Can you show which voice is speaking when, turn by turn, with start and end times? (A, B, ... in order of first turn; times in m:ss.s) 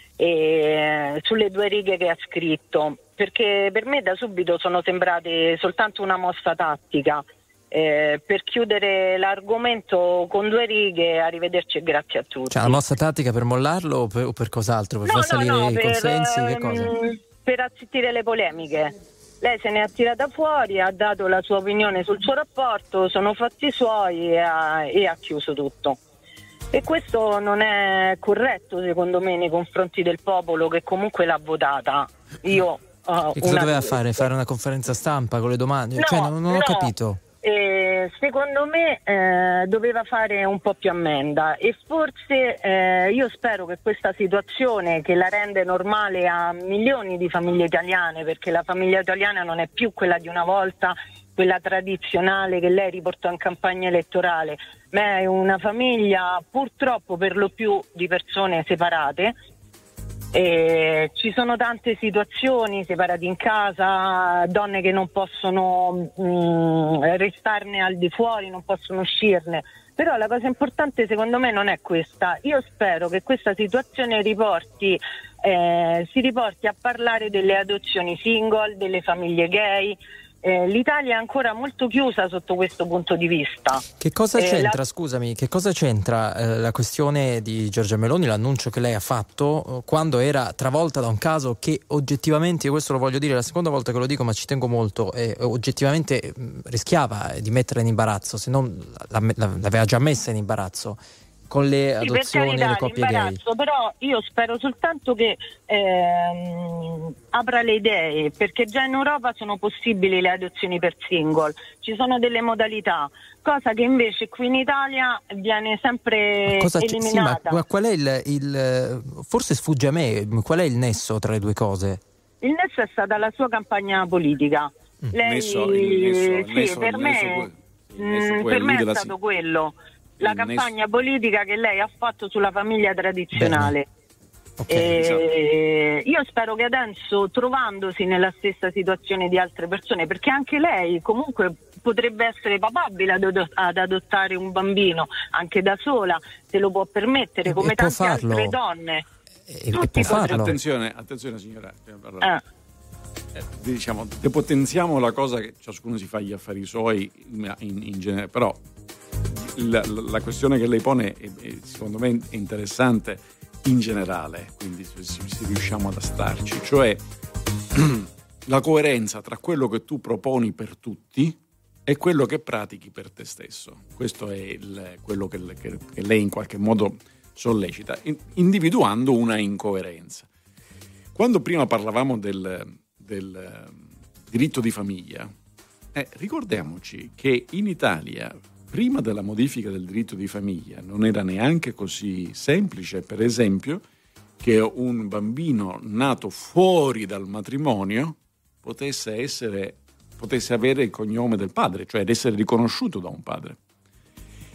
0:00.2-0:12.8 A
0:12.5-0:16.9 B
0:15.0-0:26.0 A
0:26.7-0:34.2 A
0:33.4-0:37.2 B
0:36.0-0:36.9 A
0:37.4-0:59.3 A
1:00.3-1:23.8 A
1:24.0-1:43.4 B
1:24.4-1:24.8 A
1:42.0-1:57.6 A
1:56.5-2:02.0 B
2:02.4-2:07.5 A
2:05.2-2:09.1 C
2:08.0-2:13.9 A
2:10.2-2:10.7 C
2:13.4-2:13.7 B
2:14.6-2:15.0 B
2:14.7-2:29.0 A
2:27.4-2:28.5 B
2:29.5-2:30.6 B
2:29.8-2:32.3 C
2:29.8-2:30.1 A
2:33.4-2:38.6 C
2:39.3-2:47.0 C
2:47.7-3:00.3 C
3:01.1-3:05.3 C
3:05.9-3:13.8 C
3:14.4-3:23.6 C